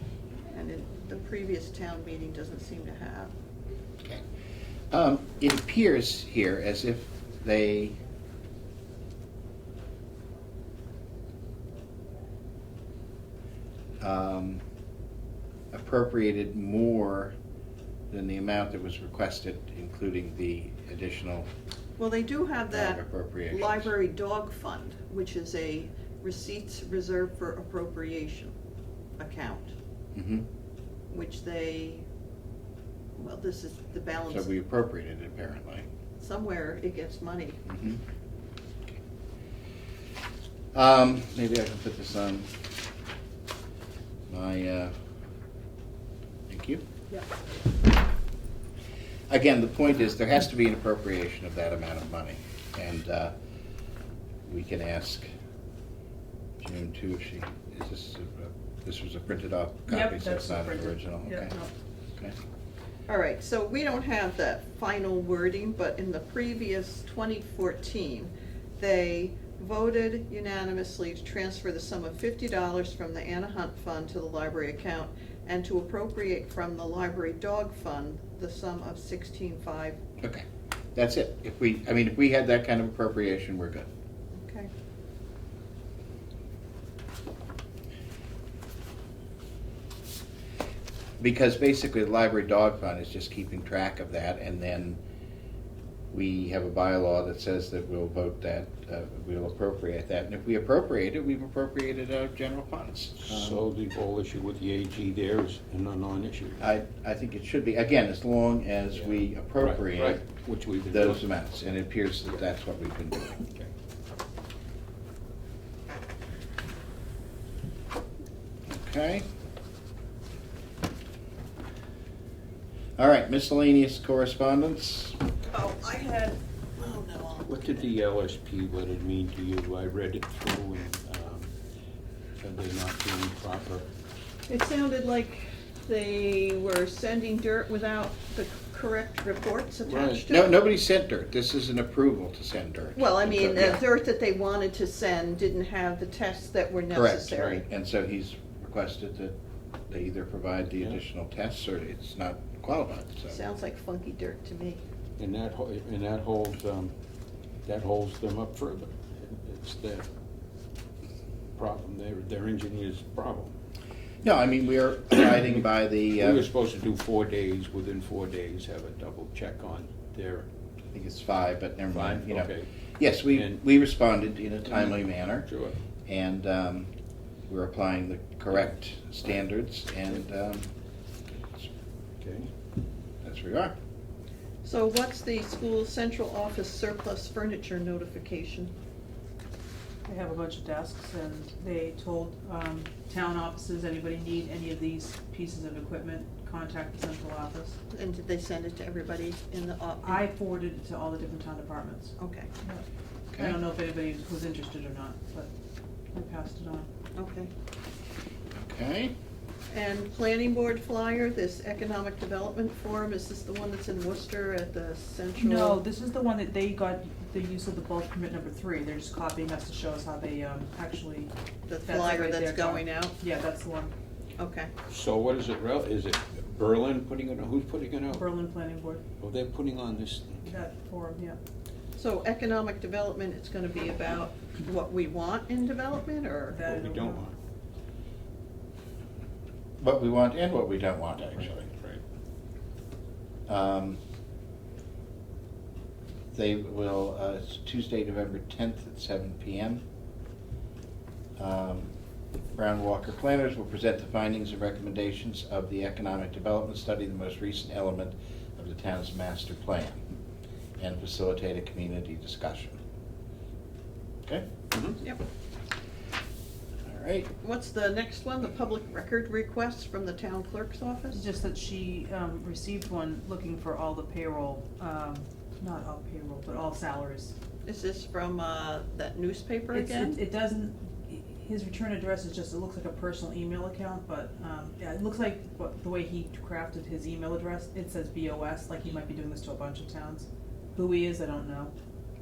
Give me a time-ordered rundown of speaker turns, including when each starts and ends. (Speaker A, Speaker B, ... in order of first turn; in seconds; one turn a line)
Speaker A: 0.5-3.3
Speaker B: 4.9-8.0
Speaker B: 14.0-14.6
Speaker B: 15.7-17.3
Speaker B: 18.1-21.5
Speaker A: 22.0-28.5
Speaker B: 22.7-23.9
Speaker A: 29.2-29.7
Speaker B: 30.1-30.4
Speaker A: 31.1-32.0
Speaker A: 33.1-34.5
Speaker B: 34.3-35.9
Speaker A: 36.2-37.6
Speaker B: 37.6-38.0
Speaker B: 40.7-42.5
Speaker B: 44.3-44.9
Speaker B: 46.5-46.8
Speaker B: 49.3-53.3
Speaker B: 54.5-55.3
Speaker B: 56.6-61.5
Speaker C: 59.9-61.7
Speaker A: 63.1-80.0
Speaker B: 80.2-83.9
Speaker A: 84.3-84.7
Speaker B: 91.2-95.0
Speaker B: 96.1-103.6
Speaker D: 103.2-106.7
Speaker B: 106.6-110.2
Speaker D: 108.9-111.2
Speaker B: 110.9-113.4
Speaker B: 118.7-119.2
Speaker B: 123.0-125.2
Speaker A: 125.4-127.9
Speaker D: 127.5-131.5
Speaker D: 132.4-133.9
Speaker A: 134.5-140.6
Speaker D: 139.9-140.2
Speaker B: 140.3-143.8
Speaker A: 142.9-147.6
Speaker B: 146.9-149.3
Speaker B: 149.9-153.4
Speaker A: 153.3-154.8
Speaker D: 155.2-156.9
Speaker D: 157.6-160.1
Speaker D: 161.6-163.5
Speaker B: 164.2-166.5
Speaker D: 166.2-170.4
Speaker B: 170.9-175.5
Speaker D: 171.9-172.7
Speaker D: 173.3-173.6
Speaker D: 174.7-175.8
Speaker B: 176.1-176.9
Speaker B: 177.5-180.7
Speaker D: 182.2-182.5
Speaker B: 183.2-183.7
Speaker A: 184.6-188.7
Speaker C: 190.1-197.8
Speaker A: 197.9-200.2
Speaker C: 200.0-202.8
Speaker A: 202.2-202.5
Speaker B: 203.3-203.6
Speaker C: 203.3-205.5
Speaker C: 206.1-206.9
Speaker A: 207.1-207.5
Speaker B: 208.5-209.1
Speaker A: 209.7-215.8
Speaker C: 215.4-221.3
Speaker A: 221.7-223.2
Speaker C: 221.8-223.9
Speaker A: 224.4-224.7
Speaker D: 224.9-228.3
Speaker C: 228.1-229.0
Speaker D: 229.2-230.6
Speaker C: 230.4-231.4
Speaker A: 231.9-236.6
Speaker C: 236.5-237.2
Speaker D: 236.6-237.3
Speaker B: 239.8-241.7
Speaker D: 241.3-242.0
Speaker B: 243.5-244.0
Speaker B: 246.3-249.8
Speaker B: 251.4-251.9
Speaker B: 252.5-260.0
Speaker B: 260.8-262.8
Speaker B: 266.8-267.3
Speaker A: 267.4-271.3
Speaker C: 271.1-277.3
Speaker A: 277.6-280.2
Speaker C: 279.7-291.7